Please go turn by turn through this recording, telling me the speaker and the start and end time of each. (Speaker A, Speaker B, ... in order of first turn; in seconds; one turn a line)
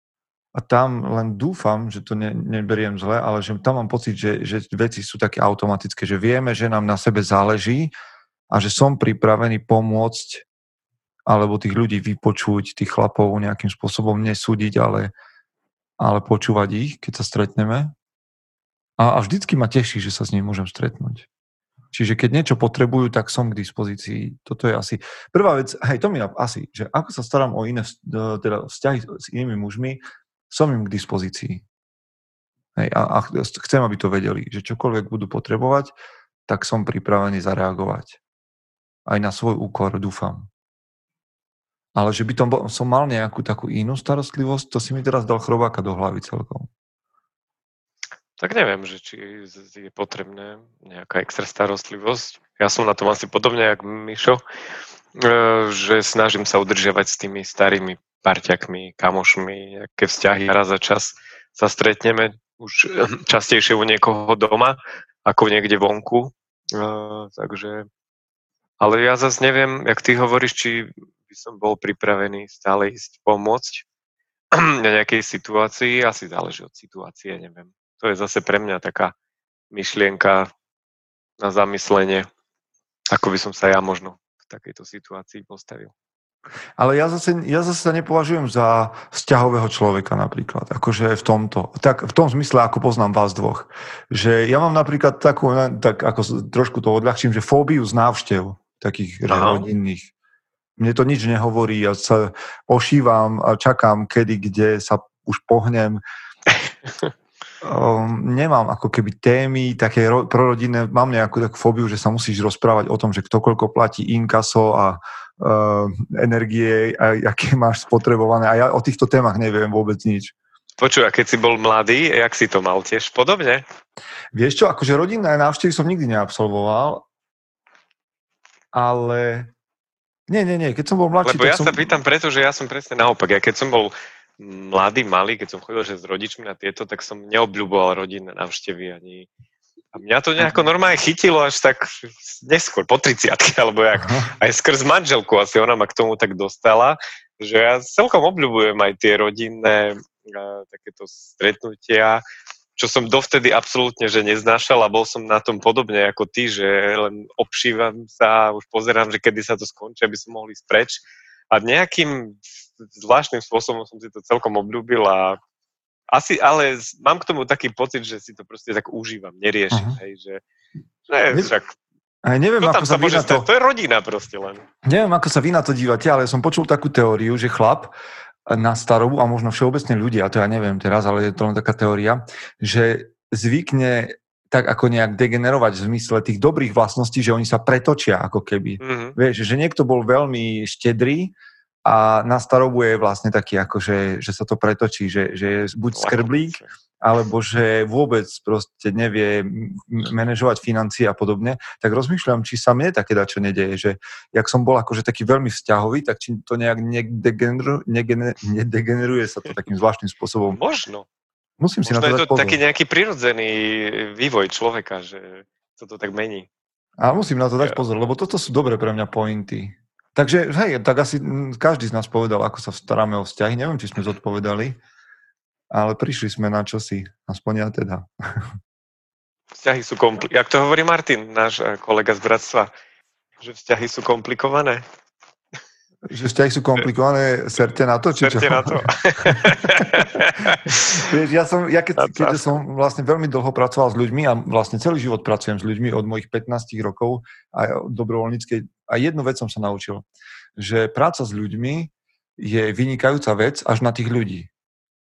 Speaker A: 0.5-7.9
Speaker A: 8.5-10.4
Speaker A: 11.3-15.1
Speaker A: 16.0-17.9
Speaker A: 19.0-21.3
Speaker A: 21.9-31.6
Speaker A: 32.8-36.0
Speaker A: 36.5-38.2
Speaker A: 39.1-40.5
Speaker A: 42.0-46.7
Speaker B: 48.4-54.4
Speaker B: 55.1-67.9
Speaker B: 68.8-73.8
Speaker B: 74.5-79.1
Speaker B: 79.7-80.5
Speaker B: 81.4-82.3
Speaker B: 83.1-85.9
Speaker A: 86.8-100.1
Speaker B: 99.3-99.7
Speaker A: 100.8-106.0
Speaker A: 107.6-120.3
Speaker B: 120.8-123.6
Speaker A: 124.3-127.1
Speaker A: 128.7-129.5
Speaker A: 130.3-132.0
Speaker B: 131.2-139.3
Speaker B: 139.9-152.2
Speaker A: 144.0-144.3
Speaker B: 152.8-165.4
Speaker B: 166.1-170.4
Speaker A: 169.7-170.0
Speaker B: 171.1-171.8
Speaker A: 172.2-173.5
Speaker B: 172.6-174.7
Speaker A: 174.8-177.9
Speaker A: 178.5-191.3
Speaker B: 188.8-189.2
Speaker A: 191.8-210.6
Speaker B: 195.9-196.7
Speaker B: 210.6-211.1
Speaker A: 211.6-212.6
Speaker B: 211.8-216.5
Speaker A: 217.0-224.8
Speaker A: 225.7-228.5
Speaker B: 229.6-232.7
Speaker B: 233.4-234.8
Speaker A: 236.1-250.1
Speaker B: 238.2-241.1
Speaker B: 242.0-242.4
Speaker A: 250.6-254.5